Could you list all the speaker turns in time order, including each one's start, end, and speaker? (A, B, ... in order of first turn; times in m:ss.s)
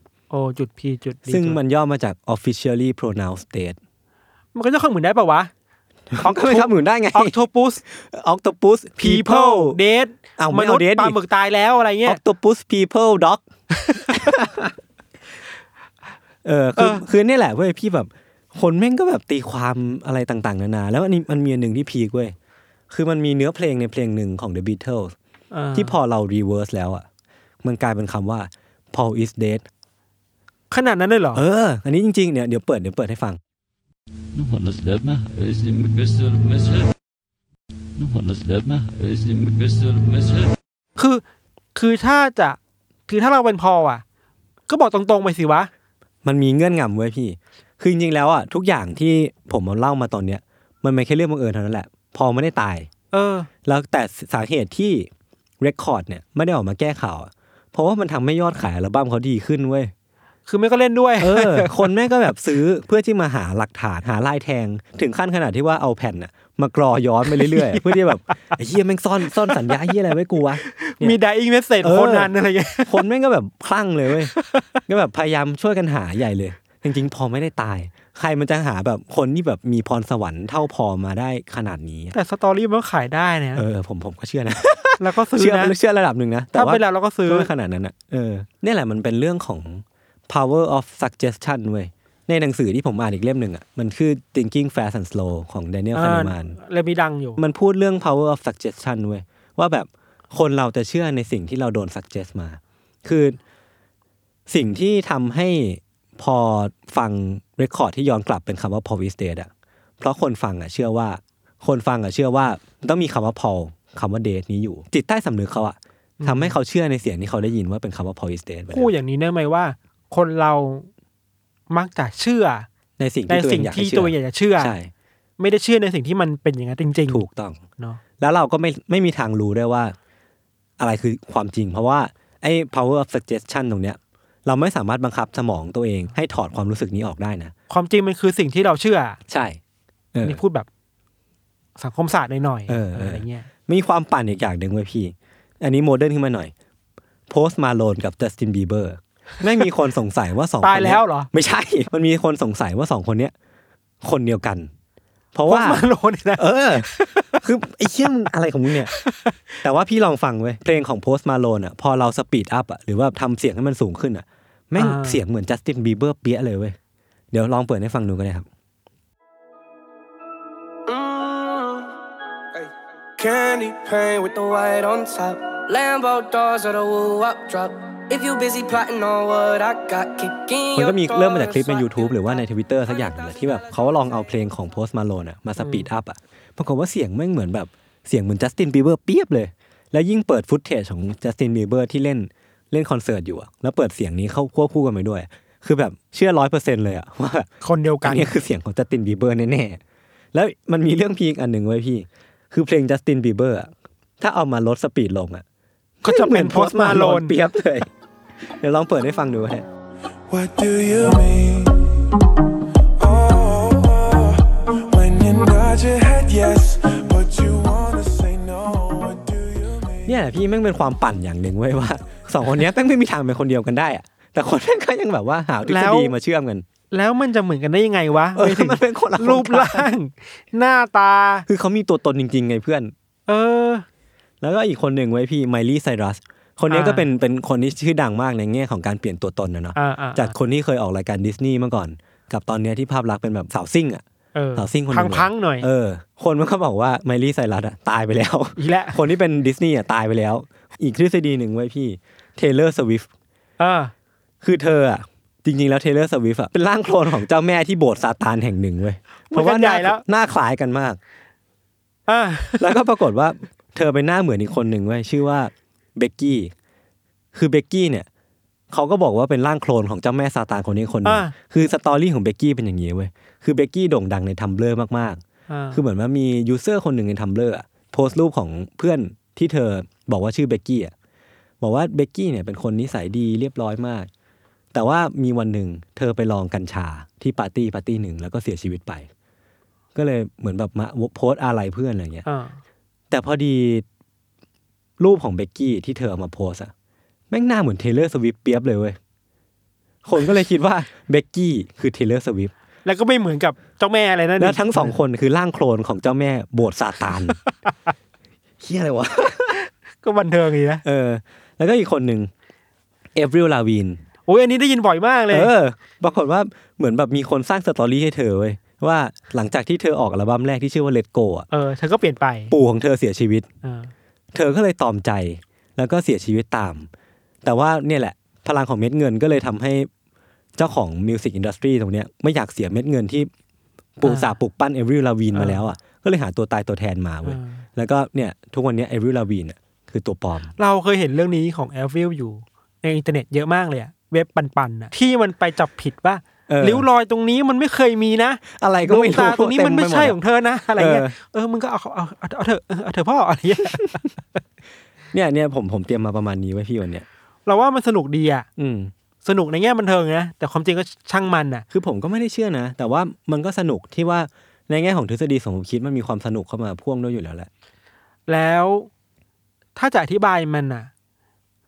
0:00.3-0:01.6 A
0:01.3-0:03.8 B
0:04.5-0:05.5 A
0:06.1-0:09.8 B
0:06.2-0:07.8 A
0:09.0-0:12.2 A
0:10.4-0:11.2 B
0:12.0-0:13.4 B
0:14.0-0:14.7 B
0:16.4-0:22.3 B
0:16.8-0:17.0 A
0:22.9-0:25.1 B
0:25.5-0:25.9 A
0:25.7-0:27.0 B
0:27.6-0:29.7 B
0:30.7-0:31.4 A
0:31.3-0:33.4 B
0:34.3-0:36.9 C
0:38.0-0:40.5 C
0:41.0-0:41.2 A
0:41.8-0:44.0 A
0:44.7-0:45.7 A
0:46.2-0:52.9 B
0:53.1-0:53.5 A
0:53.6-0:59.9 B
1:00.5-1:01.9 A
1:01.2-1:11.2 B
1:07.3-1:08.6 A
1:09.5-1:10.0 A
1:10.6-1:13.0 A
1:11.8-1:12.3 B
1:12.8-1:14.3 B
1:14.3-1:14.8 A
1:14.8-1:22.1 B
1:22.1-1:23.6 A
1:23.5-1:36.6 B
1:25.0-1:25.7 A
1:26.5-1:27.5 A
1:35.9-1:37.4 A
1:37.4-1:43.4 B
1:44.5-1:58.9 B
1:56.2-1:56.6 A
1:58.7-2:00.9 A
2:01.7-2:02.7 A
2:03.0-2:04.9 B
2:03.3-2:04.7 A
2:05.4-2:07.2 A
2:07.1-2:07.6 B
2:08.2-2:10.0 B
2:10.8-2:17.5 B
2:17.7-2:19.2 A
2:19.3-2:19.6 B
2:20.1-2:20.4 B
2:20.2-2:20.7 A
2:21.8-2:23.5 A
2:22.7-2:26.5 B
2:27.3-2:33.3 B
2:30.6-2:31.3 A
2:34.0-2:34.7 B
2:35.3-2:38.9 B
2:35.5-2:37.4 A
2:38.9-2:39.4 A
2:39.6-2:46.8 B
2:44.8-2:45.2 A
2:47.3-2:48.5 B
2:50.9-2:51.9 D
2:52.5-3:04.2 D
3:00.7-3:17.5 B
3:05.6-3:05.9 A
3:17.6-3:18.3 A
3:18.0-3:19.8 B
3:20.3-3:25.4 B
3:26.0-3:27.9 B
3:26.0-3:27.3 A
3:28.6-3:29.7 B
3:30.3-3:31.8 E
3:33.0-3:40.1 E
3:40.0-3:46.6 B
3:45.7-3:46.1 A
3:46.9-3:51.4 A
3:48.3-3:49.9 B
3:51.5-3:52.9 B
3:53.3-3:53.8 A
3:54.4-4:04.0 B
3:56.7-3:57.0 A
3:59.8-4:00.4 A
4:04.3-4:05.7 A
4:04.6-4:13.1 B
4:08.6-4:09.0 A
4:13.6-4:13.9 A
4:14.4-4:21.0 B
4:19.3-4:20.0 A
4:22.1-4:22.7 A
4:22.6-4:26.5 B
4:27.3-4:28.1 B
4:28.7-4:35.2 B
4:31.0-4:31.3 A
4:35.5-4:35.8 A
4:35.7-4:40.9 B
4:41.6-4:44.1 B
4:44.7-4:49.1 B
4:49.9-4:52.2 B
4:52.2-4:52.6 A
4:53.1-4:53.8 B
4:55.0-4:56.7 B
4:57.3-4:59.0 B
5:00.0-5:02.5 B
5:02.8-5:04.9 A
5:04.4-5:07.4 B
5:08.6-5:09.6 B
5:09.5-5:10.8 A
5:10.8-5:12.3 B
5:13.1-5:14.0 B
5:14.3-5:15.5 A
5:15.3-5:21.5 B
5:21.5-5:22.5 A
5:22.5-5:23.5 B
5:23.6-5:23.9 A
5:24.3-5:26.9 B
5:27.4-5:29.9 B
5:30.6-5:33.3 B
5:34.0-5:40.5 B
5:34.0-5:34.3 A
5:35.3-5:35.7 A
5:37.2-5:37.6 A
5:40.6-5:54.0 A
5:46.5-5:46.8 B
5:48.5-5:50.2 B
5:50.8-5:51.1 B
5:55.1-5:57.0 B
5:57.4-5:58.5 A
5:58.6-5:58.9 B
5:59.2-6:01.6 A
6:01.7-6:07.5 B
6:08.3-6:08.9 A
6:09.8-6:10.9 A